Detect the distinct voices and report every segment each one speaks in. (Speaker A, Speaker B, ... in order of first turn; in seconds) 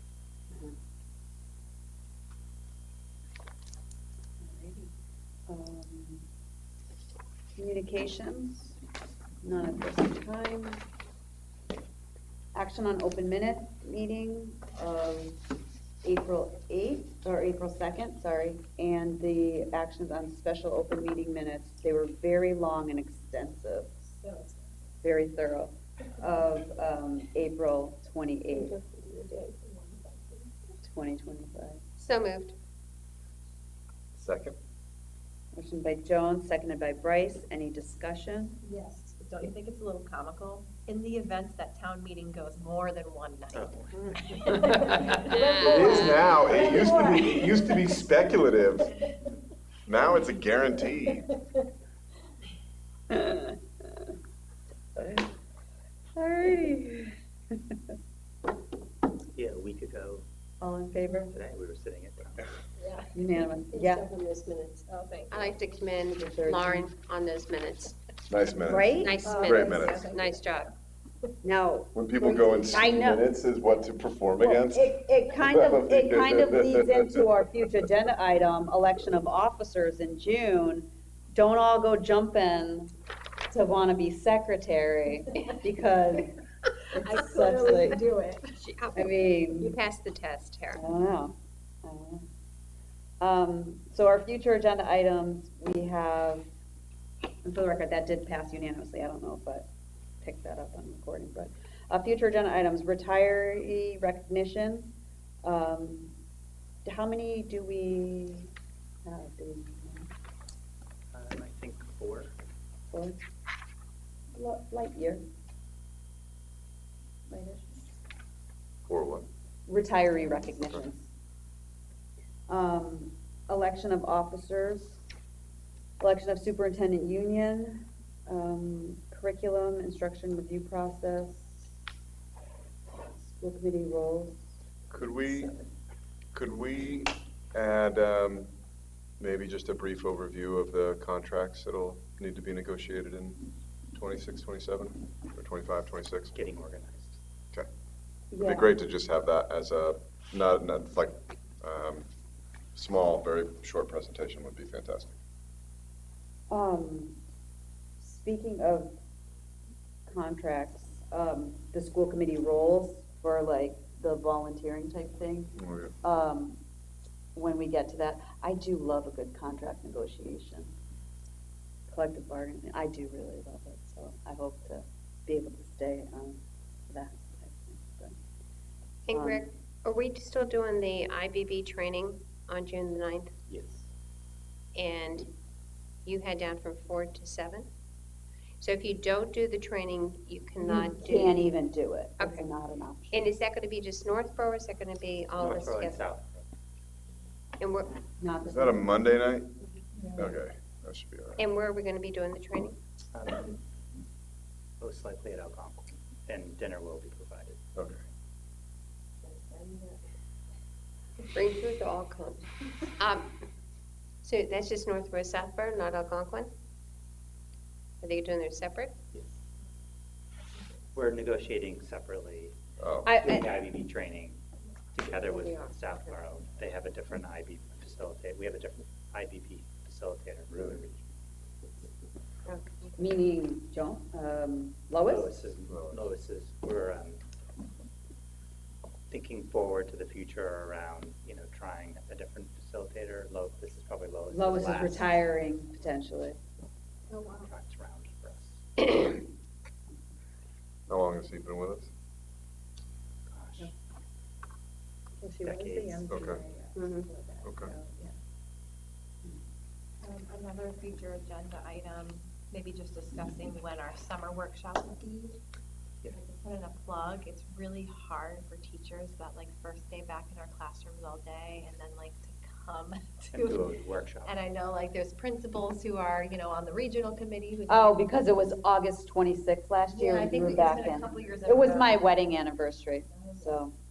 Speaker A: 4.4-4.9, 5.5-6.2, 7.6-8.8, 9.4-10.8, 12.5-15.4, 16.0-23.9, 25.0-28.7, 30.8-31.8, 35.5-38.6, 53.1-54.1, 55.0-55.3, 56.2-57.1, 60.6-61.4, 63.1-64.1, 66.2-66.9, 68.7-69.9, 71.4-73.3, 74.4-82.9, 83.5-86.4, 86.9-88.0, 89.0-89.8, 90.7-92.2, 93.2-96.5, 97.5-99.7, 100.2-104.9, 105.4-106.1, 106.8-108.5, 109.0-110.1, 112.9-113.2, 114.3-115.2, 117.3-117.9, 119.7-121.1, 122.5-125.0, 126.0-131.7, 132.9-134.4, 135.2-135.6, 148.3-148.8, 156.5-157.1, 158.0-158.9, 160.1-166.6, 167.3-170.7, 171.9-178.1, 179.1-179.5, 190.7-193.3, 198.2-198.8, 223.0-223.5, 233.0-235.3, 244.3-246.4, 277.7-283.7
Speaker B: 24.1-24.7, 28.5-30.5, 38.6-48.1, 62.8-63.1, 63.7-65.6, 69.2-70.4, 86.9-88.6, 209.2-210.0, 247.1-247.5, 255.2-258.1, 260.0-265.4, 266.1-273.7, 274.2-278.2, 279.9-282.0
Speaker C: 32.0-32.5, 45.2-46.3, 65.3-68.0, 68.9-70.7, 88.6-89.1, 89.6-90.8, 179.1-183.3, 184.7-185.3, 186.0-187.7, 188.6-191.3, 192.2-192.5, 193.1-196.0, 197.6-198.0, 201.4-202.8, 211.3-212.5, 213.0-213.3, 214.2-216.5, 218.0-218.9, 225.2-226.1, 232.5-233.1, 256.8-257.1
Speaker D: 34.1-34.5, 45.6-49.0, 49.9-51.3, 68.3-70.1, 72.0-77.2, 118.8-119.3, 134.9-135.6, 136.3-138.5, 139.2-146.3, 148.4-152.1, 152.7-155.1, 165.6-165.9, 198.5-199.5, 200.1-201.5, 222.8-223.1, 235.7-236.0, 250.9-251.9, 256.1-256.4, 257.4-257.7
Speaker E: 43.5-45.1, 59.3-60.2, 61.3-62.5, 111.1-112.3, 146.3-147.2, 183.5-183.9, 195.4-196.4, 203.1-203.6, 204.8-207.6, 220.9-224.4, 224.9-231.0, 235.0-237.2, 239.1-245.1, 247.2-248.6, 253.3-253.7, 255.4-256.2, 273.3-274.4